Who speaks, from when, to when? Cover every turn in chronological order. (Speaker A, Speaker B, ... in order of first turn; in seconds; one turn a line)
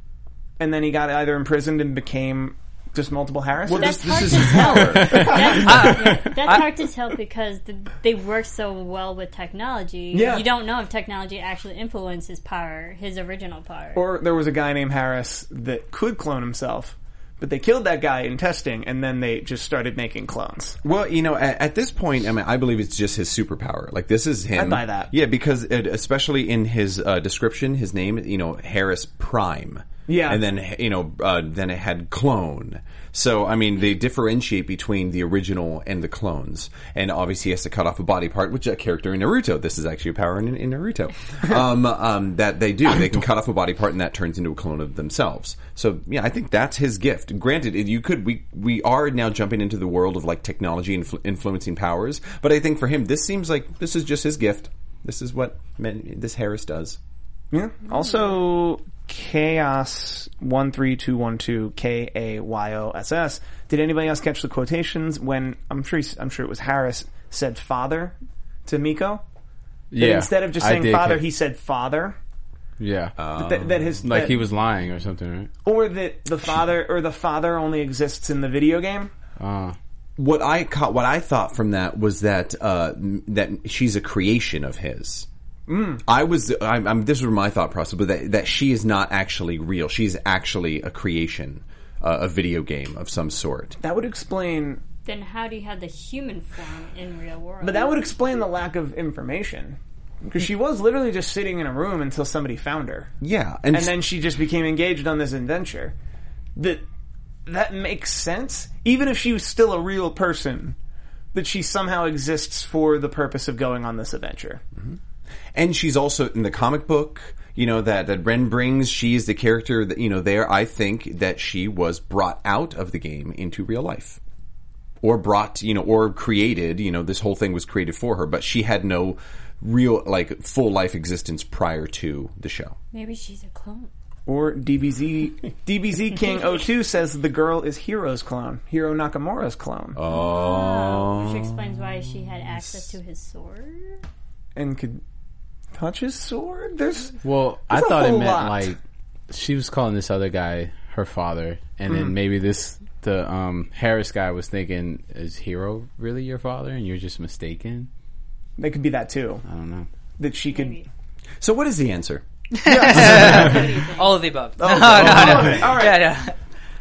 Speaker A: 0.6-5.9
Speaker B: 3.6-5.7
Speaker C: 3.7-14.1
Speaker D: 5.6-6.7
Speaker A: 10.1-10.5
Speaker A: 13.9-20.8
Speaker B: 20.8-57.0
Speaker A: 24.5-25.1
Speaker A: 30.1-30.4
Speaker A: 57.5-69.2
Speaker E: 69.9-71.2
Speaker A: 70.0-72.2
Speaker E: 72.8-73.2
Speaker B: 73.2-74.2
Speaker A: 73.3-74.4
Speaker E: 74.0-75.5
Speaker A: 75.7-79.1
Speaker E: 79.4-79.8
Speaker B: 80.2-85.3
Speaker A: 85.7-86.0
Speaker B: 86.1-93.8
Speaker A: 93.8-94.8
Speaker C: 95.0-98.2
Speaker A: 97.6-103.1
Speaker B: 103.2-104.0
Speaker A: 103.7-106.0
Speaker A: 106.6-106.8
Speaker A: 107.5-110.8
Speaker A: 111.3-114.6
Speaker B: 115.5-124.2
Speaker B: 125.0-132.8
Speaker C: 132.9-133.9
Speaker A: 134.3-140.0
Speaker B: 139.9-141.8
Speaker C: 140.1-144.0
Speaker B: 142.6-142.9
Speaker A: 144.6-145.0
Speaker A: 145.7-147.2
Speaker E: 147.2-148.8
Speaker A: 147.7-148.7
Speaker E: 149.3-157.9
Speaker A: 158.6-159.4
Speaker E: 159.5-159.9
Speaker A: 160.2-160.8
Speaker C: 160.5-160.9
Speaker B: 161.4-163.6
Speaker D: 162.6-166.4
Speaker A: 162.7-163.4
Speaker C: 163.4-164.2
Speaker B: 164.6-165.6
Speaker A: 164.6-166.2